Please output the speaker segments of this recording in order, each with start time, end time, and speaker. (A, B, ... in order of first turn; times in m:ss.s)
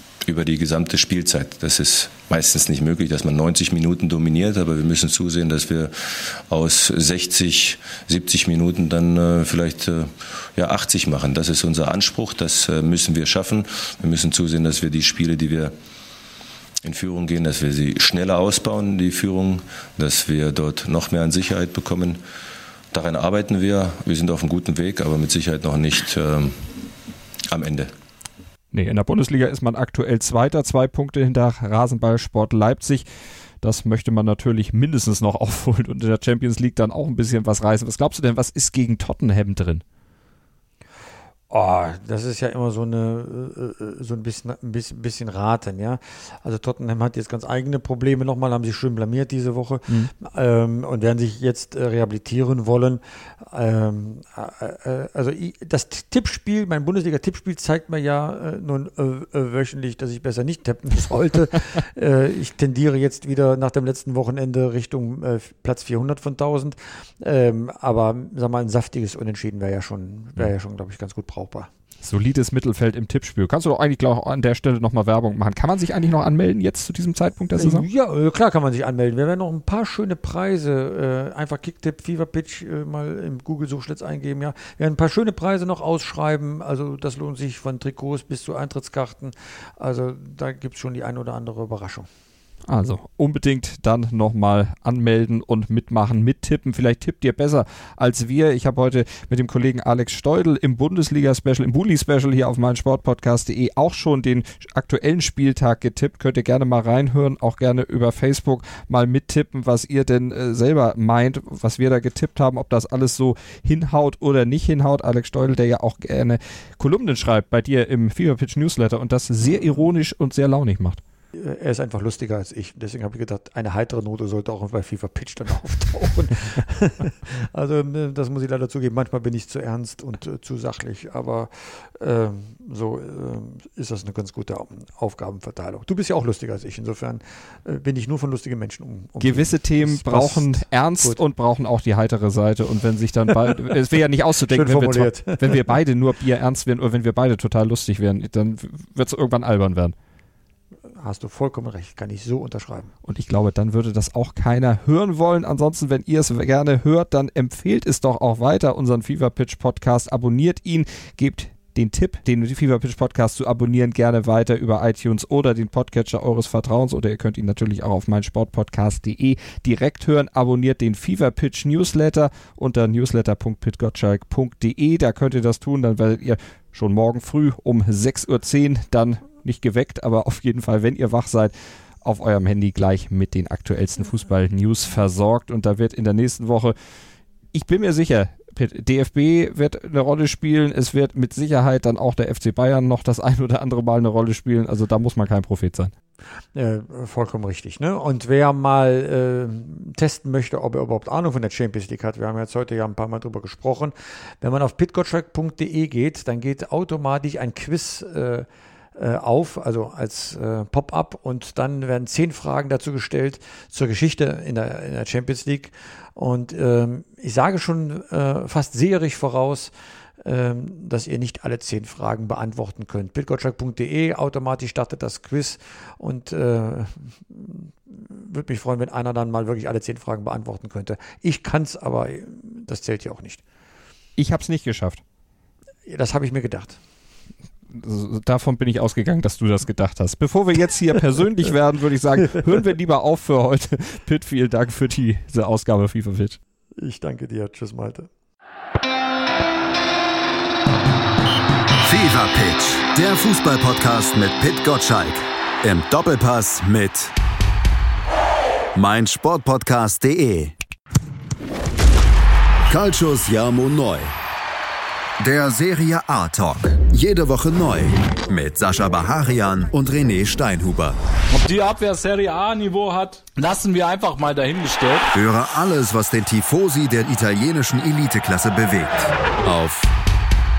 0:00.3-0:15.7 A
0:16.8-0:22.2 A
0:22.9-0:26.8 A
0:27.5-0:27.9 A
0:28.7-0:33.0 B
0:33.6-0:39.8 B
0:41.5-1:11.7 C
1:12.0-1:17.9 B
1:17.6-1:32.1 C
1:32.7-2:01.0 B
2:01.3-2:21.2 C
2:19.2-2:30.0 B
2:24.5-2:25.7 C
2:31.0-2:32.9 C
2:33.0-3:06.7 B
3:07.5-3:15.9 B
3:16.5-3:53.4 C
3:54.2-3:55.0 B
3:55.9-3:56.8 C
3:57.7-4:06.4 B
4:06.8-4:08.1 C
4:11.8-4:17.1 D
4:18.7-4:20.6 D
4:22.7-4:24.1 D
4:25.2-4:31.0 D
4:31.3-4:35.1 E
4:35.1-4:39.9 D